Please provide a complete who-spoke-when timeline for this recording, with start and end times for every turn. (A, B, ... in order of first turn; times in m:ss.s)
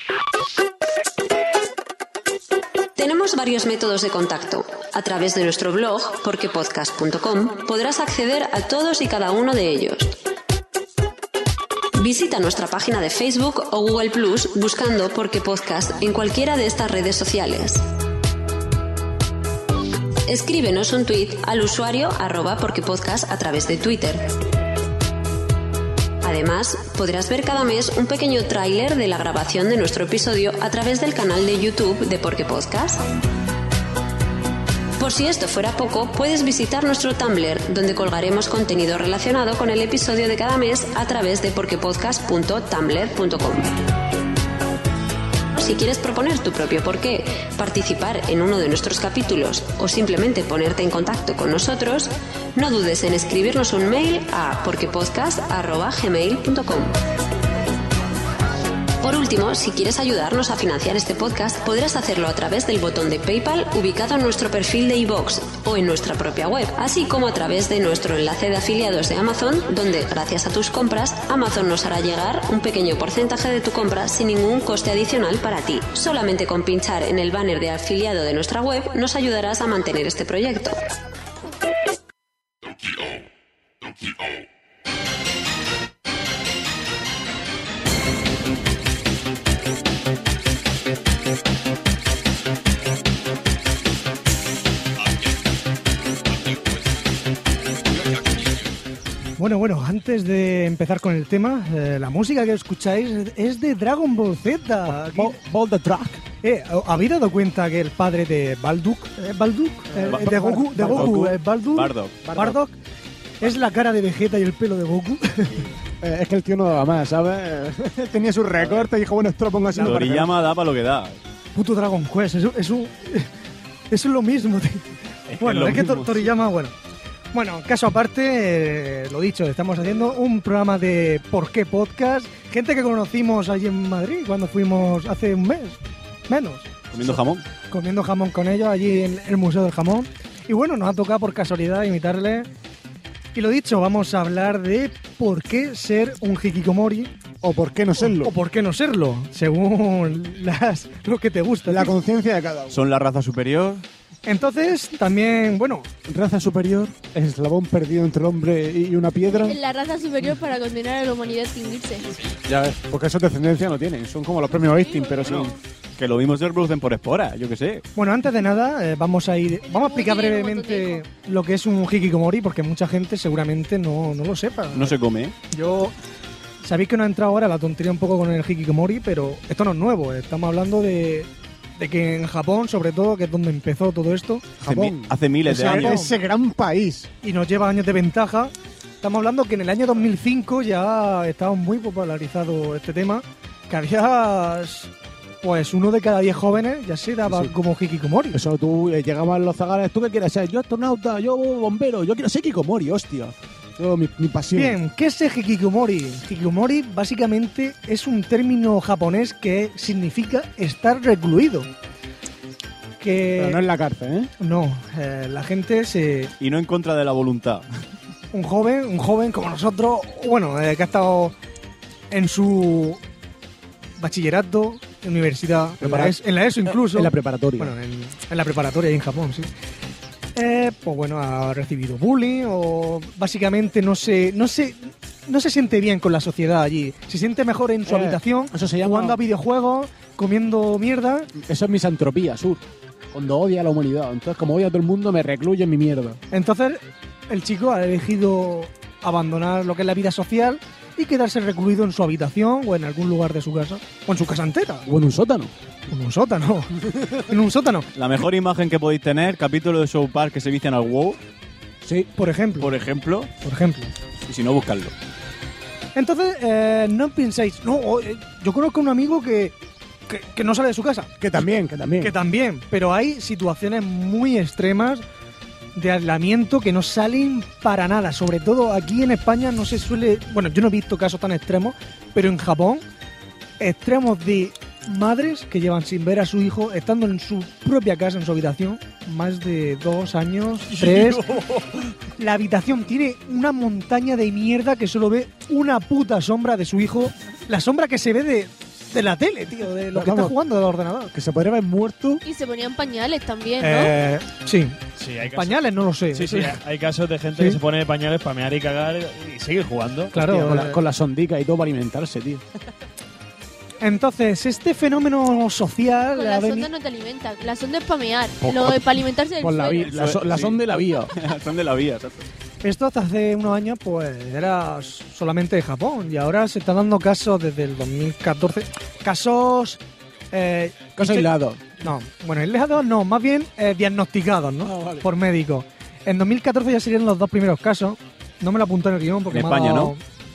0:03.0-0:10.2 A
0:12.0-0:17.8 A
0:20.3-0:24.2 A
0:26.2-0:33.0 A
0:35.0-0:43.8 A
0:45.5-0:57.0 A
0:59.0-1:20.8 A
1:39.4-1:45.4 B
1:44.9-1:46.2 C
1:46.4-1:52.8 B
1:49.9-1:51.3 C
1:50.1-1:52.3 D
1:52.2-1:52.6 C
1:53.4-1:55.6 B
1:56.0-2:00.3 C
1:58.6-1:58.9 D
1:59.8-2:00.0 B
1:59.8-2:01.2 D
2:01.5-2:03.3 B
2:03.9-2:04.8 B
2:05.3-2:06.3 D
2:05.4-2:06.7 B
2:07.3-2:17.1 B
2:16.9-2:17.4 D
2:17.7-2:22.5 B
2:23.3-2:27.1 B
2:27.4-2:28.3 C
2:28.0-2:31.9 B
2:31.7-2:32.8 C
2:32.7-2:33.8 D
2:34.2-2:35.9 B
2:36.1-2:39.6 C
2:39.4-2:42.0 E
2:42.5-2:45.5 C
2:44.6-2:45.6 E
2:45.2-2:47.8 D
2:48.0-2:54.9 B
2:49.7-2:51.0 E
2:54.7-2:55.3 D
2:55.5-2:55.9 B
2:56.6-3:04.4 B
3:04.6-3:06.0 D
3:04.6-3:07.1 C
3:05.5-3:06.1 B
3:07.2-3:14.9 B
3:15.4-3:18.4 B
3:17.3-3:17.5 C
3:18.3-3:24.8 C
3:24.5-3:31.7 B
3:33.0-3:33.6 B
3:33.3-3:34.3 C
3:34.4-3:36.3 B
3:36.4-3:37.6 D
3:38.3-3:41.3 B
3:42.1-3:43.0 B
3:44.0-3:49.5 B
3:45.8-3:47.7 C
3:50.3-4:01.3 B
3:57.8-3:59.2 C
4:01.3-4:06.2 C
4:06.3-4:14.8 B
4:14.9-4:15.5 C
4:15.9-4:16.7 B
4:17.3-4:17.9 B
4:17.9-4:21.2 D
4:21.8-4:22.1 C
4:22.2-4:22.7 B
4:22.6-4:23.3 D
4:23.4-4:23.9 B
4:24.3-4:24.9 D
4:25.9-4:29.5 B
4:30.1-4:31.3 B
4:31.2-4:32.1 C
4:32.0-4:35.0 B
4:35.8-4:42.8 B
4:43.6-4:51.2 B
4:52.2-5:01.1 B
4:59.9-5:00.3 C
5:01.1-5:02.2 C
5:02.2-5:03.9 E
5:03.6-5:06.6 B
5:05.0-5:10.2 F
5:10.1-5:10.8 B
5:10.1-5:12.4 C
5:13.8-5:16.7 B
5:16.1-5:19.9 E
5:18.4-5:21.1 C
5:19.7-5:20.6 D
5:21.1-5:22.3 D
5:22.6-5:29.8 B
5:30.3-5:40.0 B
5:31.0-5:31.6 C
5:34.6-5:35.1 C
5:39.3-5:39.9 D